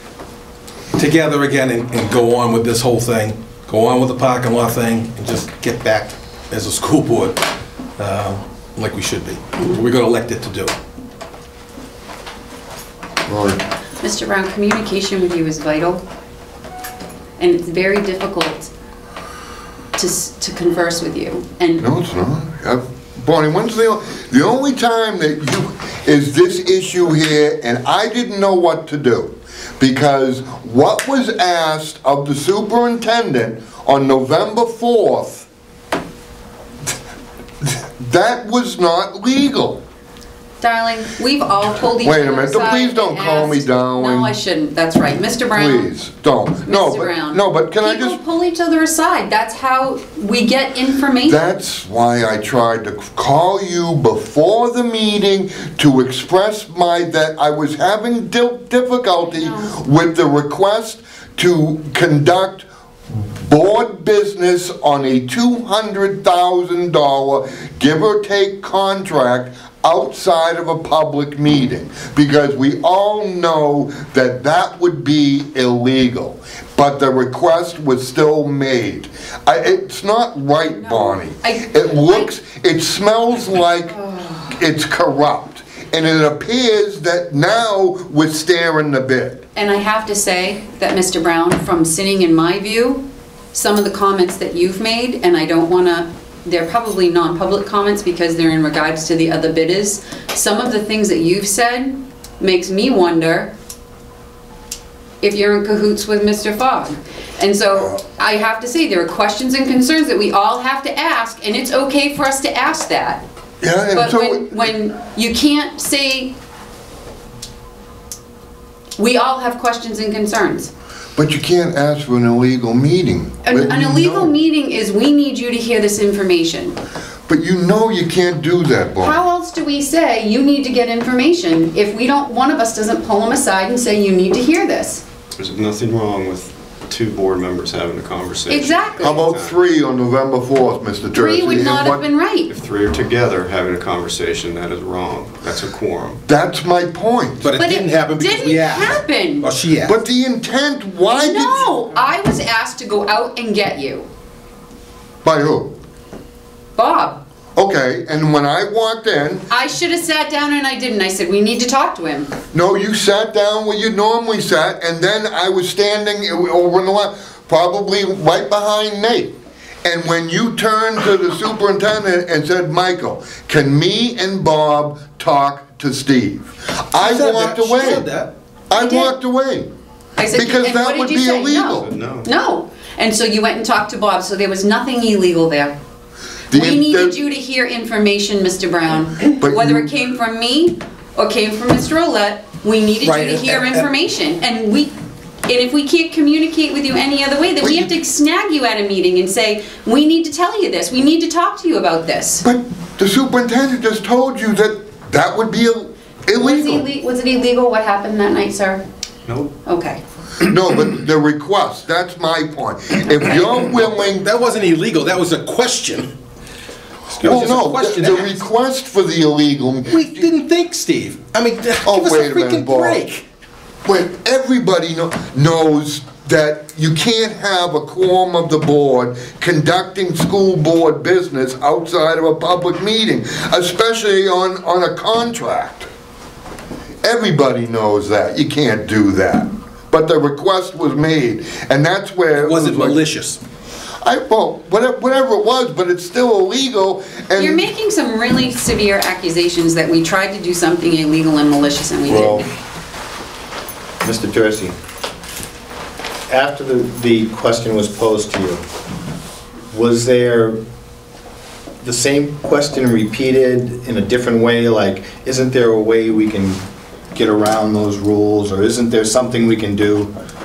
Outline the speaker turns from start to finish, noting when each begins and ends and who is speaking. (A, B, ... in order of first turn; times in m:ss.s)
0:01.0-0:07.4 A
0:08.0-0:10.8 A
0:13.3-0:13.6 B
0:14.0-0:16.0 C
0:17.4-0:18.7 C
0:20.0-0:21.8 C
0:21.8-0:35.5 B
0:37.6-0:39.8 B
0:40.6-0:45.9 C
0:42.0-0:44.3 B
0:45.5-0:48.2 B
0:46.6-0:51.4 C
0:51.3-1:29.4 B
0:59.2-0:59.8 C
1:20.7-1:22.3 C
1:23.9-1:24.6 C
1:29.6-1:43.5 C
1:45.2-1:53.2 C
1:53.6-1:54.7 B
1:53.9-1:56.3 C
1:59.0-2:00.7 C
2:01.2-2:04.3 B
2:03.4-2:06.8 C
2:07.3-2:09.2 B
2:09.0-2:15.0 C
2:15.4-2:19.6 D
2:18.5-2:19.3 C
2:19.0-2:22.0 B
2:21.1-2:22.5 C
2:22.5-2:26.2 D
2:26.3-2:27.5 B
2:27.4-2:30.0 A
2:27.6-2:29.5 C
2:29.9-2:31.9 B
2:31.1-2:34.1 C
2:35.2-2:35.7 B
2:36.8-2:37.2 C
2:37.6-2:39.5 B
2:39.5-2:42.3 C
2:42.5-2:49.3 B
2:49.8-2:58.1 B
2:57.0-2:58.3 A
2:58.7-2:59.7 B
2:58.7-2:59.1 C
3:00.2-3:05.8 C
3:00.3-3:01.9 B
3:01.8-3:02.3 D
3:06.5-3:07.2 B
3:06.5-3:22.5 C
3:09.4-3:09.9 B
3:13.0-3:13.8 A
3:17.6-3:17.9 B
3:22.4-3:26.9 B
3:26.4-3:28.8 C
3:29.3-3:29.5 D
3:29.6-3:30.0 C
3:30.4-3:34.2 B
3:33.3-3:36.1 A
3:37.1-3:38.4 A
3:37.2-3:40.3 B
3:39.9-3:43.2 A
3:41.8-3:43.2 B
3:43.8-3:55.9 B
3:57.0-4:03.0 B
4:02.4-4:03.4 A
4:04.0-4:07.6 B
4:07.4-4:12.5 C
4:12.1-4:12.5 B
4:14.0-4:14.8 E
4:16.3-4:18.6 E
4:19.7-4:20.6 E
4:21.8-4:30.1 E